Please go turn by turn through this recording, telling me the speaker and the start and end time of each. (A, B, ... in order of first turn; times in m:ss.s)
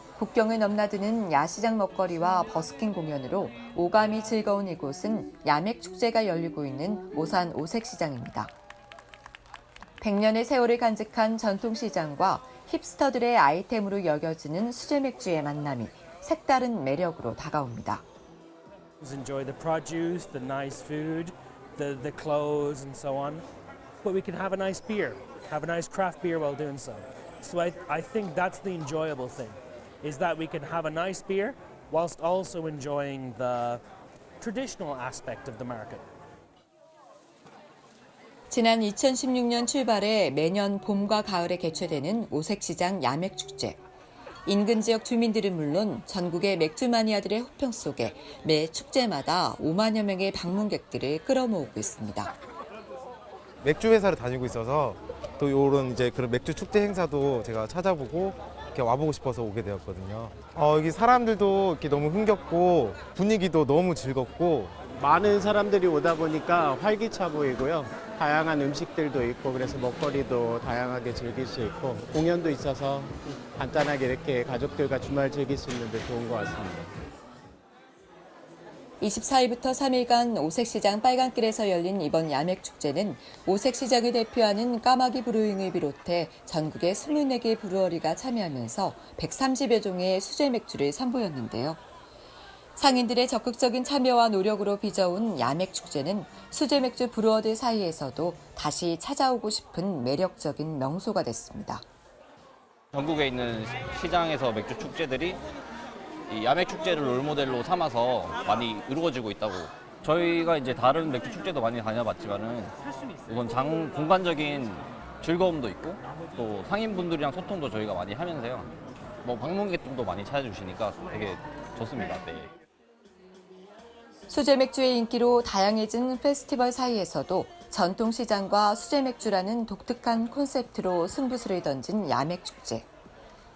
0:00.2-0:08.5 A
0:10.0-0:18.0 A
0:19.0-0:23.4 B
0:24.0-0:33.8 B
0:34.4-0:36.0 B
0:38.5-0:43.8 A
0:44.5-0:52.3 A
0:53.6-1:04.8 C
1:05.0-1:16.9 D
1:19.0-1:31.8 A
1:32.8-1:41.8 A
1:42.9-1:45.4 E
1:46.3-1:58.7 E
1:59.2-2:02.5 E
2:04.3-2:12.9 A